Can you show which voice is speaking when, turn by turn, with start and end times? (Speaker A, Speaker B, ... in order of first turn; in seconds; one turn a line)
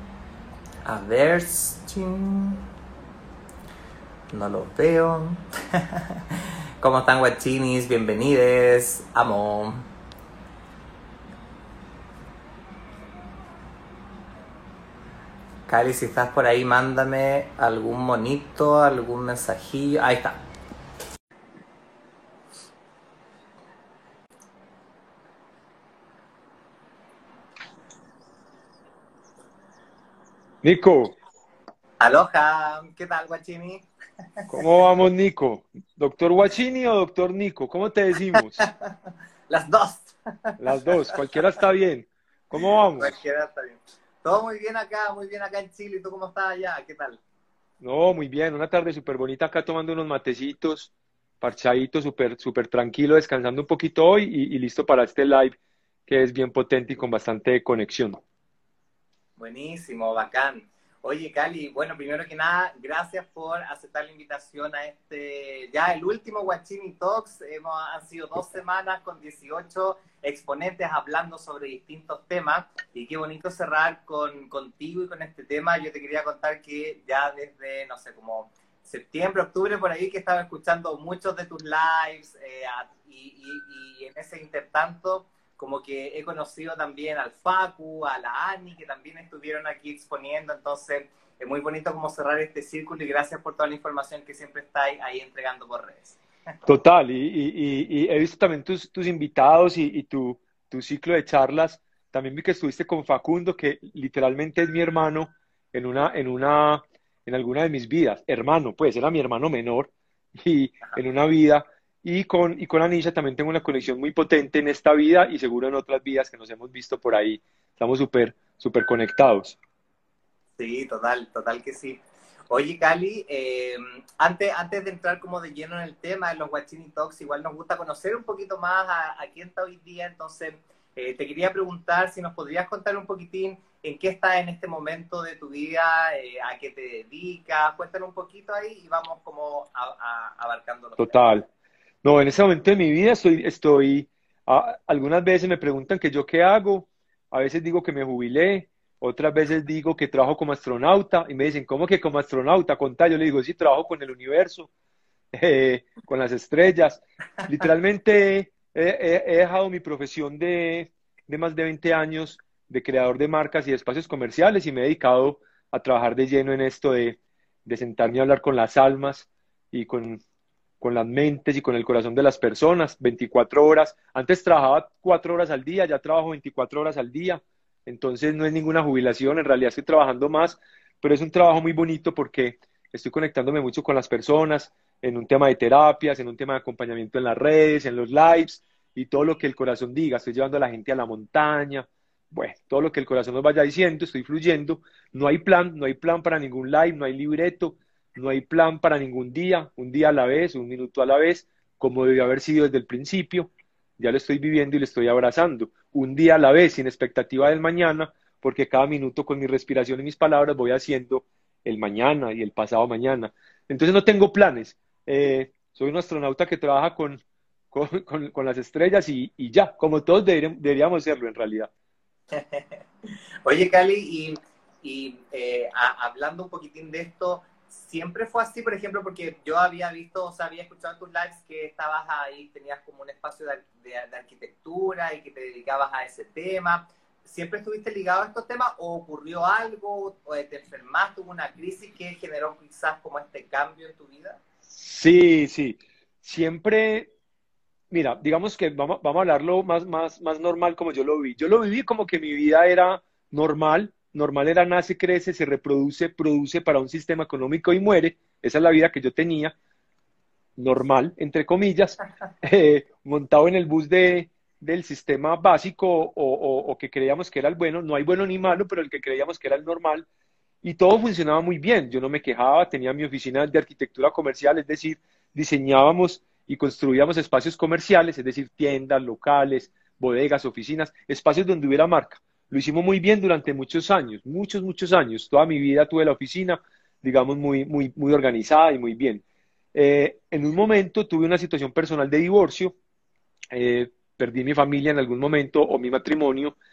Speaker A: 0.8-2.6
Speaker A: 4.3-6.2
Speaker A: 6.8-9.8
Speaker A: 15.7-20.4
Speaker B: 30.6-31.2
Speaker A: 32.0-33.9
Speaker B: 34.5-38.6
Speaker A: 38.3-38.9
Speaker A: 39.5-41.4
Speaker B: 40.6-43.1
Speaker A: 42.9-47.2
Speaker B: 47.8-55.5
Speaker B: 56.1-58.2
Speaker A: 59.4-96.2
Speaker B: 96.7-119.6
Speaker A: 120.6-141.2
Speaker B: 141.0-141.4
Speaker B: 142.0-154.7
Speaker B: 155.3-170.2
Speaker B: 170.8-217.2
Speaker B: 217.7-221.7
Speaker A: 222.3-222.6
Speaker A: 223.4-244.4
Speaker B: 244.7-247.1
Speaker B: 247.9-259.5
Speaker B: 260.6-270.1
Speaker B: 270.6-289.2
Speaker B: 289.7-292.8
Speaker B: 293.5-296.5